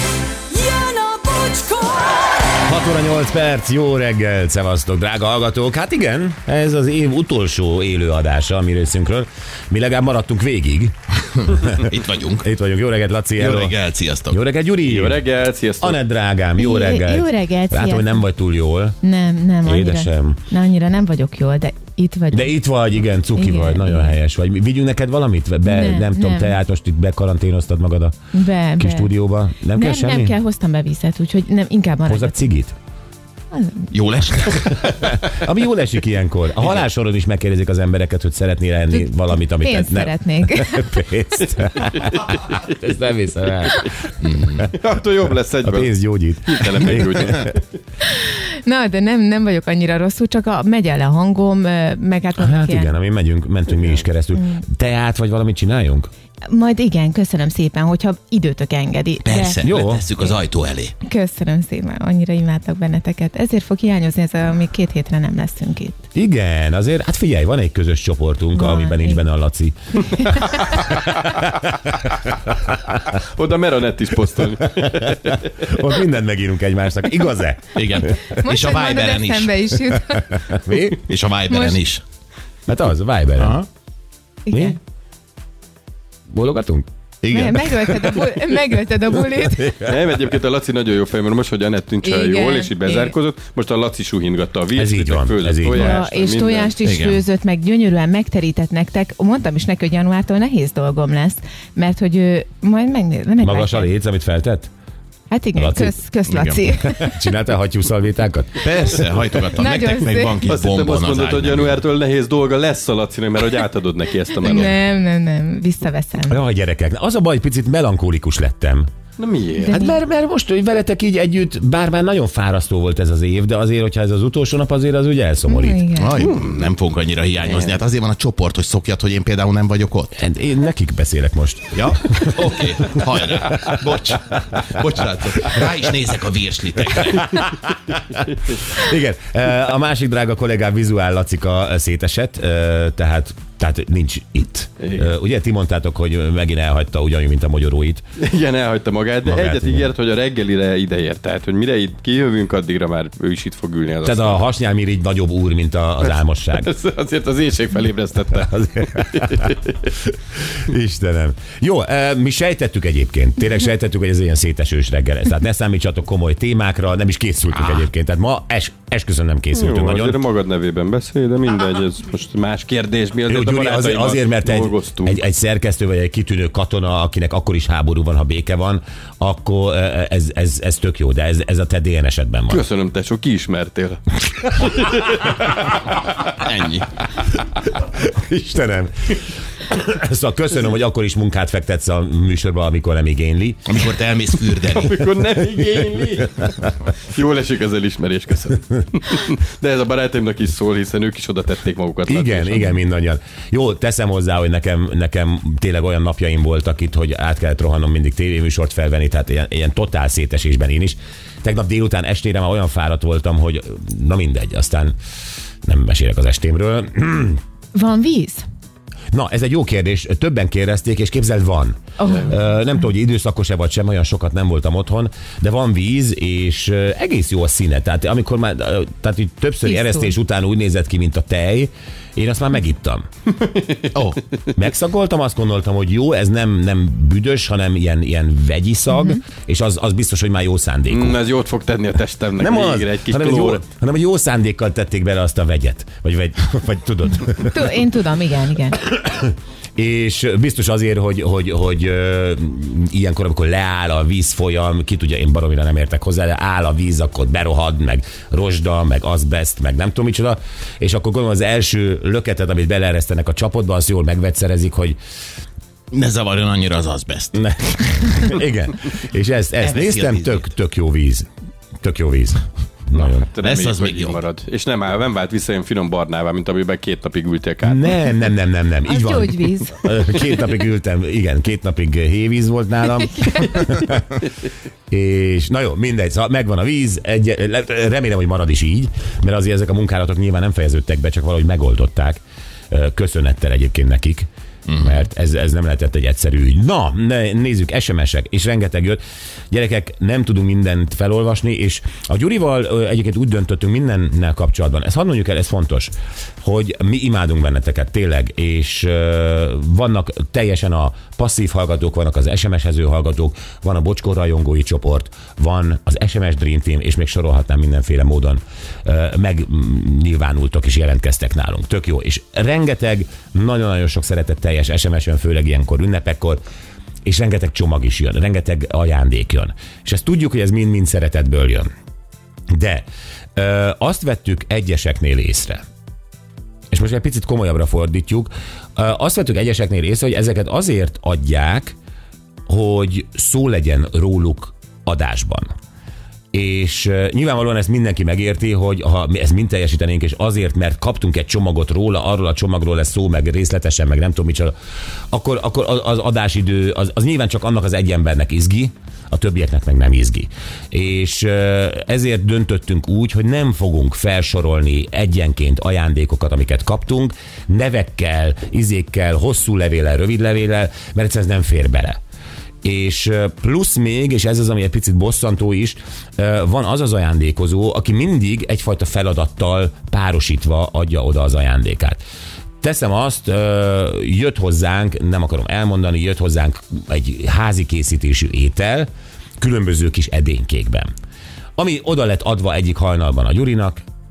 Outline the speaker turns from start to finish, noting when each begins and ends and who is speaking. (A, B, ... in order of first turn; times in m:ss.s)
0:00.5-0:02.6 A
0:02.6-0:10.9 B
0:11.4-0:12.5 C
0:11.5-0:11.9 B
0:12.4-0:15.2 B
0:13.4-0:14.4 C
0:14.8-0:16.0 D
0:15.8-0:19.0 B
0:16.6-0:18.2 E
0:19.0-0:22.6 E
0:19.6-0:20.4 B
0:22.3-0:28.1 B
0:23.3-0:24.1 E
0:25.6-0:26.6 E
0:28.3-0:29.1 E
0:28.8-0:30.4 B
0:29.7-0:32.5 E
0:32.0-0:32.7 B
0:33.5-0:33.9 E
0:33.9-0:35.2 C
0:34.9-0:43.9 B
0:38.9-0:41.0 E
0:42.1-0:42.4 D
0:44.2-0:44.7 C
0:44.7-0:45.9 D
0:45.6-0:47.5 B
0:46.4-0:47.6 D
0:48.0-0:52.9 E
0:52.4-0:56.1 B
0:54.3-0:54.6 E
0:56.5-0:59.6 E
0:59.2-1:00.9 C
0:59.6-1:00.1 B
1:01.0-1:06.0 E
1:06.1-1:12.0 B
1:08.5-1:09.2 E
1:10.2-1:10.6 E
1:12.7-1:13.0 B
1:13.0-1:15.5 D
1:14.8-1:18.2 B
1:17.8-1:19.6 C
1:18.2-1:20.7 E
1:20.1-1:21.0 B
1:21.0-1:22.0 C
1:21.5-1:21.8 E
1:22.7-1:23.6 B
1:23.4-1:23.7 C
1:24.5-1:24.8 E
1:24.5-1:24.8 B
1:26.3-1:26.8 B
1:27.2-1:28.2 C
1:27.3-1:29.8 E
1:29.4-1:29.9 B
1:29.8-1:36.7 D
1:32.0-1:33.1 E
1:34.7-1:36.0 B
1:35.6-1:43.9 E
1:36.8-1:37.2 C
1:43.4-1:44.7 B
1:45.3-1:47.2 E
1:45.5-1:46.0 B
1:46.3-1:46.6 C
1:46.8-1:48.6 B
1:48.6-1:51.8 C
1:49.4-1:50.4 E
1:50.3-1:54.7 D
1:54.4-1:56.4 E
1:56.3-1:58.9 B
1:59.2-1:59.8 D
1:59.6-2:00.0 E
1:59.7-2:05.8 B
2:05.5-2:06.2 E
2:06.0-2:10.1 C
2:06.2-2:06.7 D
2:07.4-2:07.8 D
2:10.1-2:12.6 B
2:11.7-2:17.4 C
2:13.5-2:14.4 B
2:17.2-2:28.0 B
2:18.3-2:18.6 D
2:24.8-2:25.1 D
2:28.2-2:34.5 D
2:29.2-2:29.9 B
2:34.0-2:36.7 B
2:36.0-2:39.9 D
2:38.4-2:39.4 B
2:40.1-2:50.2 B
2:49.5-2:55.2 D
2:53.3-3:02.6 B
3:02.5-3:05.2 D
3:06.2-3:07.0 C
3:07.8-3:13.7 B
3:13.7-3:15.0 C
3:14.6-3:22.7 D
3:22.1-3:34.9 B
3:35.6-3:37.4 B
3:37.7-3:38.4 E
3:39.1-3:53.0 B
3:42.0-3:42.4 E
3:49.6-3:50.1 E
3:53.4-3:53.8 D
3:53.9-3:54.2 C
3:54.5-4:01.2 B
4:00.9-4:03.6 D
4:02.4-4:07.8 B
4:07.4-4:08.8 E
4:08.8-4:25.0 B
4:25.9-4:27.3 C
4:27.3-4:31.3 B
4:29.6-4:30.4 C
4:31.8-4:33.3 B
4:32.9-4:38.0 D
4:33.4-4:34.2 C
4:37.6-4:44.2 B
4:38.8-4:39.8 E
4:43.2-4:43.5 E
4:44.9-4:52.2 B
4:52.7-5:26.4 B
4:54.7-4:55.0 C
5:27.0-5:31.7 B
5:32.5-5:32.8 B
5:33.4-5:35.6 B
5:36.7-5:41.8 B
5:42.5-5:45.5 B
5:46.3-5:54.5 B
5:55.1-6:12.0 B
6:12.6-6:22.0 B
6:22.6-6:30.9 B
6:31.6-6:33.8 B